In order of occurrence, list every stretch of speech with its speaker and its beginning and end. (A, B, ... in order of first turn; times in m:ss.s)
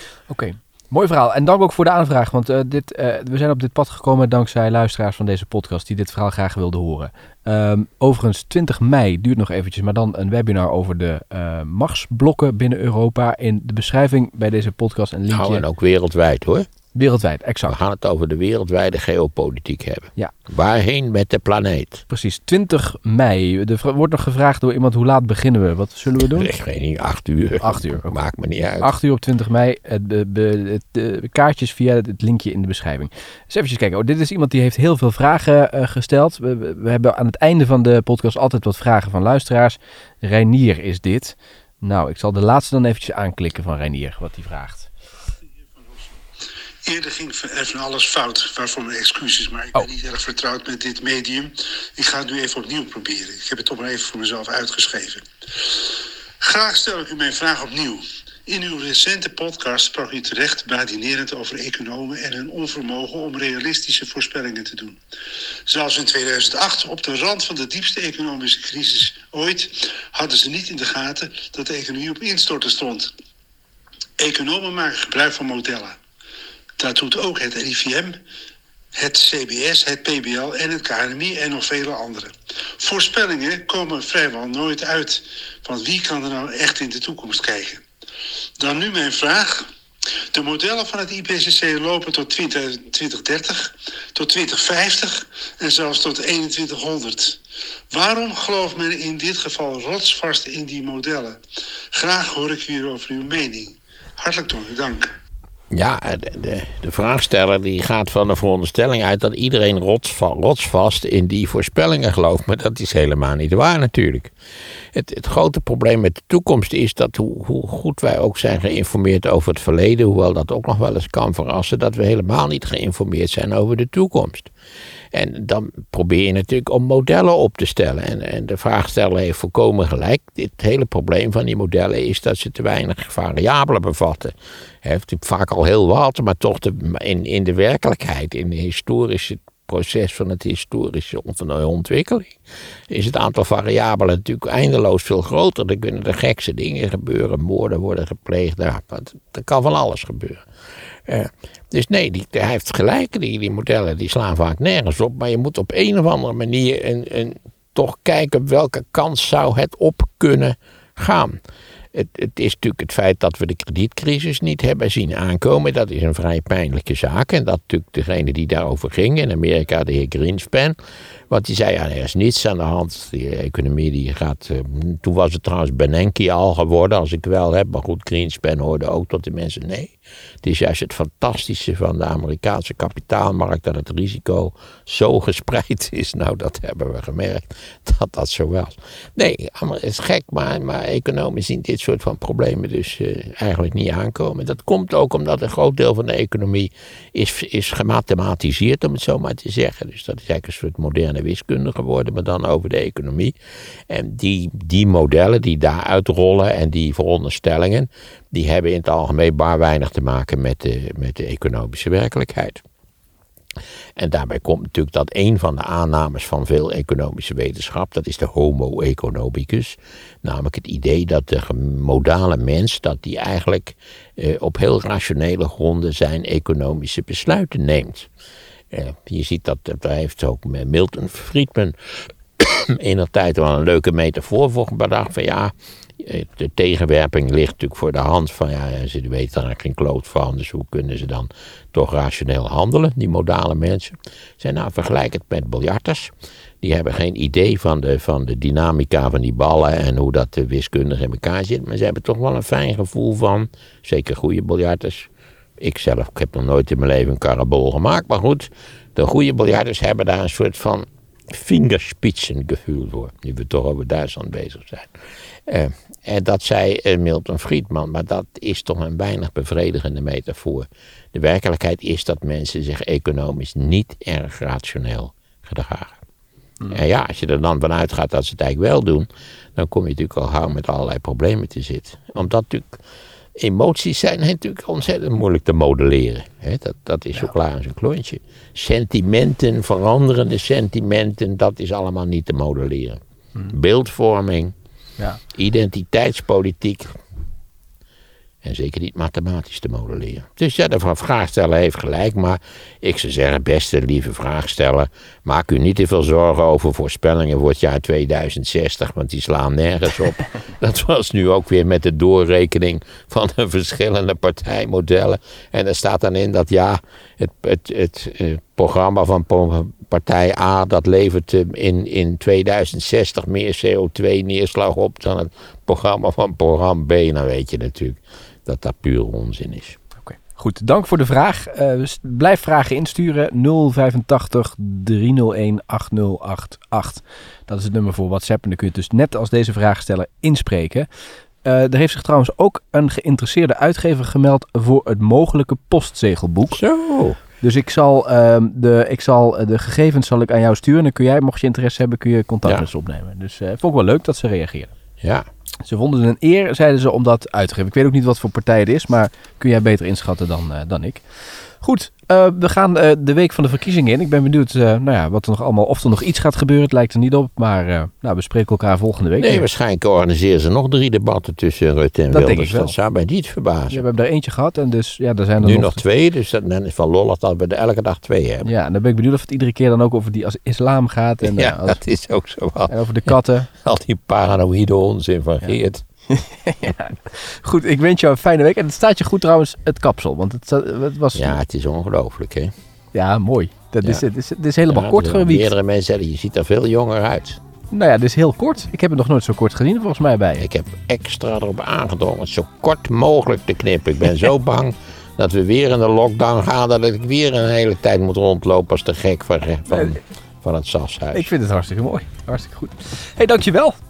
0:00.3-0:15.6 A
0:15.3-0:16.7 B
0:16.9-0:17.8 A
0:17.7-0:22.0 B
0:22.1-0:26.5 A
0:26.2-0:28.9 B
0:27.6-0:28.2 A
0:28.8-0:44.9 A
0:45.8-0:46.1 C
0:46.8-1:05.0 C
1:05.7-1:13.1 C
1:14.2-1:16.0 C
1:16.8-1:18.2 C
1:18.9-1:27.8 C
1:28.6-1:29.7 C
1:30.3-1:37.4 C
1:37.9-1:41.4 C
1:41.9-1:45.1 C
1:45.7-1:54.3 B
1:54.9-2:04.5 B
2:05.1-2:30.4 B
2:31.0-2:41.4 B
2:41.9-2:50.8 B
2:51.3-3:23.3 B
3:23.9-3:32.6 B
3:34.0-3:48.1 B
3:48.7-4:36.0 B
4:36.7-4:42.8 B
4:43.4-4:54.5 B
4:55.3-4:57.0 B
4:58.4-5:29.8 B
5:30.0-5:40.9 A
5:41.4-5:46.6 A
5:46.5-5:47.2 B
5:47.4-5:54.7 A
5:55.0-5:55.3 B
5:55.6-6:09.5 A
6:09.2-6:13.8 B
6:12.1-6:12.7 A
6:13.7-6:15.8 A
6:15.4-6:18.5 B
6:18.4-6:21.8 A
6:21.2-6:25.8 B
6:22.7-6:23.5 A
6:26.1-6:31.4 A
6:31.1-6:32.5 B
6:32.9-6:35.5 A
6:34.7-6:37.4 B
6:37.7-6:40.4 A
6:40.4-6:51.3 B
6:49.7-6:50.0 A
6:51.1-6:53.8 A